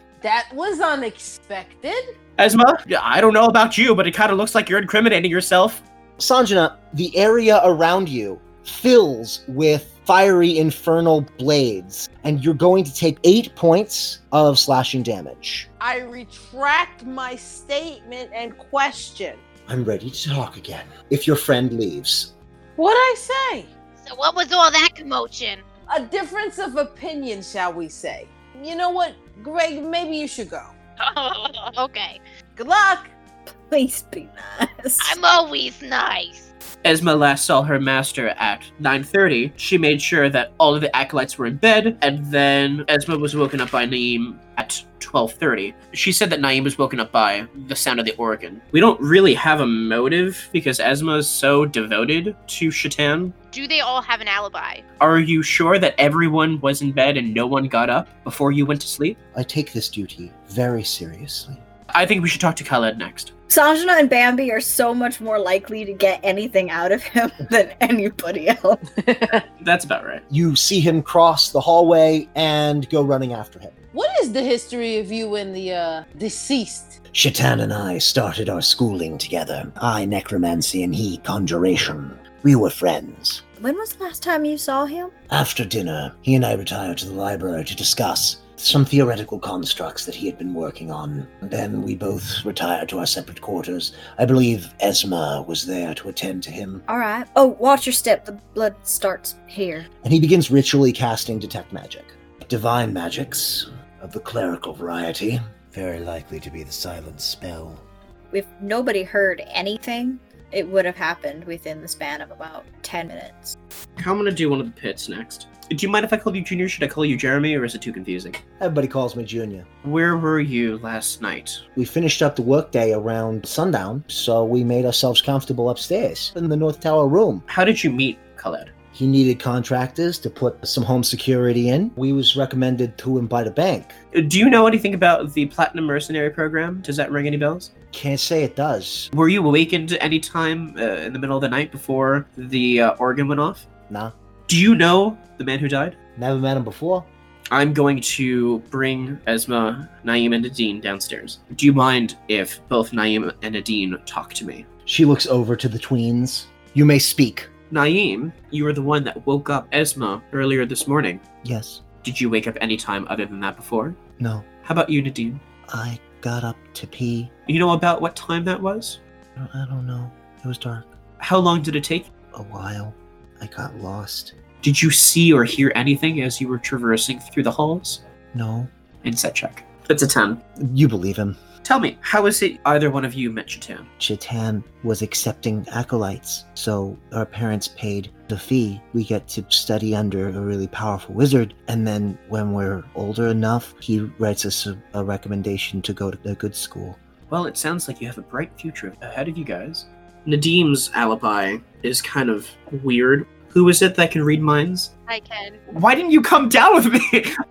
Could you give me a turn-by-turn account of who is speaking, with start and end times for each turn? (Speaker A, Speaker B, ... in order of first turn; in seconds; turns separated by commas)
Speaker A: 0.2-2.0, Speaker B: 2.4-5.8, Speaker C: 6.2-15.7, Speaker A: 15.8-19.4, Speaker C: 19.7-22.3, Speaker A: 22.8-23.7, Speaker D: 24.0-25.6, Speaker A: 25.9-30.7, Speaker D: 31.0-32.2, Speaker A: 32.6-33.1, Speaker E: 33.6-35.2, Speaker D: 35.0-36.5, Speaker B: 36.8-53.3, Speaker D: 53.5-54.8, Speaker B: 55.0-59.2, Speaker C: 59.3-61.6, Speaker B: 61.9-63.3, Speaker E: 63.5-68.8, Speaker A: 69.1-69.4, Speaker B: 69.6-70.2, Speaker C: 70.3-73.7, Speaker A: 73.9-77.0, Speaker C: 77.1-83.4, Speaker E: 83.6-85.1, Speaker C: 85.3-96.8, Speaker E: 96.9-99.9, Speaker C: 100.0-107.8, Speaker E: 108.3-113.6, Speaker B: 114.0-118.4, Speaker C: 118.6-119.7, Speaker B: 119.8-121.6, Speaker C: 121.8-127.4, Speaker B: 127.5-128.7, Speaker C: 128.9-134.0, Speaker B: 134.1-137.7, Speaker C: 137.9-139.1, Speaker B: 139.1-143.7, Speaker C: 143.9-144.1, Speaker B: 144.5-146.0, Speaker C: 146.2-147.1, Speaker B: 147.5-154.7, Speaker C: 154.8-157.5, Speaker B: 157.7-161.2, Speaker C: 161.4-161.8, Speaker B: 162.0-164.0, Speaker C: 164.2-164.4, Speaker B: 164.6-165.4, Speaker C: 165.7-167.3, Speaker B: 167.5-169.0, Speaker C: 169.4-170.9, Speaker B: 171.2-172.1, Speaker C: 172.3-174.3, Speaker B: 174.6-178.0, Speaker C: 178.3-178.7, Speaker B: 179.0-180.4, Speaker C: 180.6-181.4, Speaker B: 181.6-183.9, Speaker C: 184.0-197.0, Speaker B: 197.3-204.9, Speaker D: 205.1-205.6, Speaker B: 205.7-207.3